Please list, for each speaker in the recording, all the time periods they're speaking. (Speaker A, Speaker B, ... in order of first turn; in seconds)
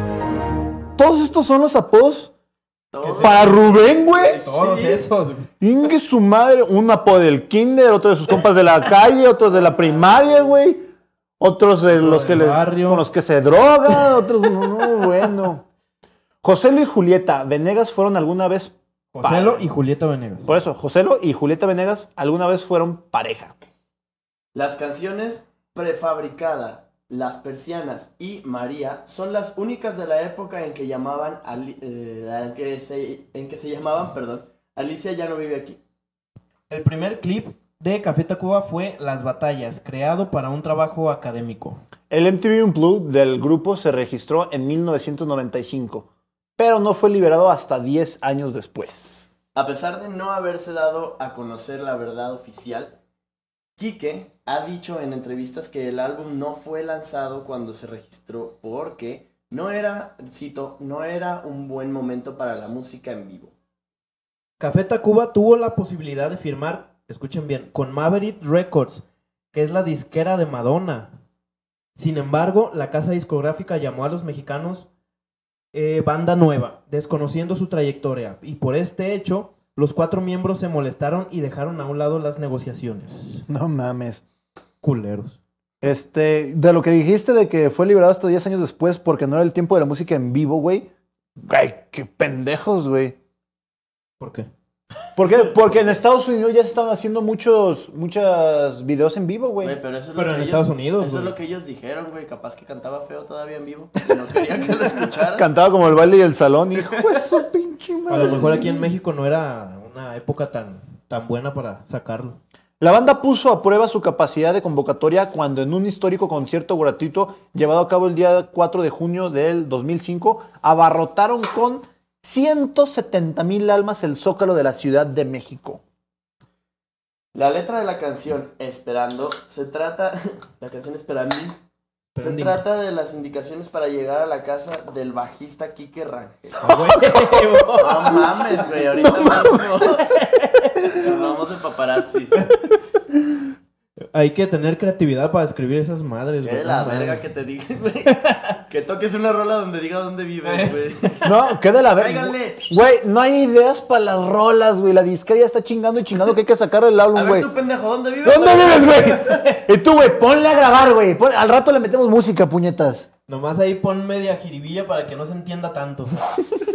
Speaker A: 1.0-2.3, 3.2-4.4, 5.6-10.8, 11.4-15.7, 16.4-19.6, 20.5-23.5, 42.1-46.0, 46.6-49.3, 83.5-84.2, 85.8-93.2, 95.2-99.8, 105.3-108.6, 112.8-125.8, 138.9-139.9, 151.2-157.5, 158.2-163.1
Speaker B: 2.9-5.1, 24.5-35.8, 49.5-53.0, 53.8-63.5, 99.6-105.5, 106.9-107.2, 127.3-131.6, 132.2-136.8, 137.7-140.1, 141.0-142.4, 146.4-152.8, 157.1-159.1
Speaker C: 3.0-3.6, 4.4-5.5, 11.9-13.0, 19.1-20.5, 36.7-41.8, 64.6-71.1, 72.0-74.9, 75.7-83.5, 84.8-85.4, 94.2-94.5, 100.1-101.3, 108.1-112.4, 132.1-132.6, 136.6-138.3, 140.2-141.0, 144.1-147.2, 150.4-151.1, 163.3-166.2